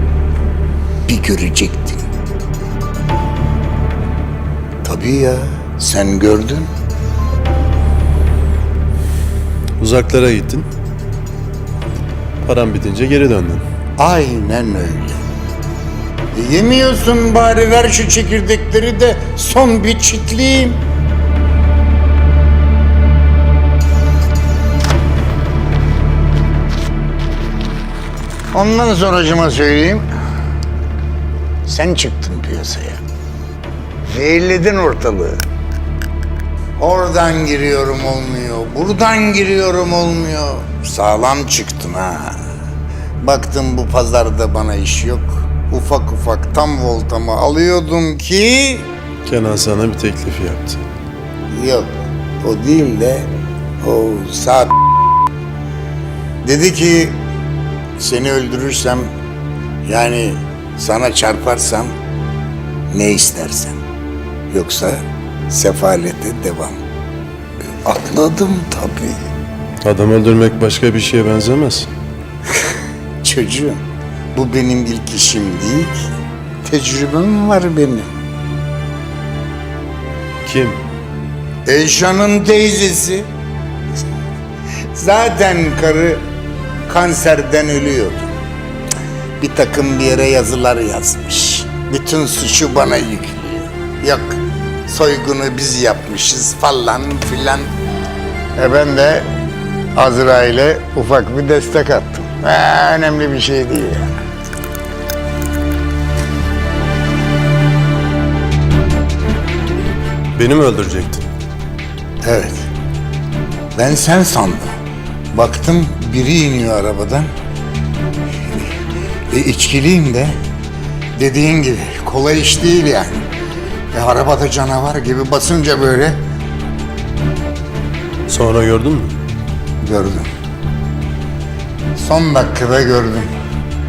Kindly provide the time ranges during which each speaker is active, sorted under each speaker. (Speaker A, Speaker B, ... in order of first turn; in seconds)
Speaker A: 1.1-2.1, 4.8-6.7, 14.0-15.2, 16.3-20.8, 28.5-30.1, 31.7-33.0, 34.1-35.4, 36.8-42.4, 43.2-48.9, 51.5-53.3, 53.8-54.7, 56.4-57.2, 58.0-59.1, 59.9-61.9, 62.9-63.8, 64.5-66.8, 67.8-69.2, 73.2-73.8, 74.3-76.1, 76.6-78.1, 81.7-83.3, 84.9-86.2, 86.9-88.3, 89.4-97.7, 98.6-99.3, 100.0-104.1, 112.2-112.7, 113.8-114.7, 115.3-117.3, 119.3-120.3, 121.2-123.3, 123.9-126.2, 129.8-130.3, 132.0-133.3
Speaker B: 9.8-10.7, 12.4-13.6, 49.2-50.9, 69.8-71.9, 80.5-80.8, 110.3-111.3, 128.3-129.2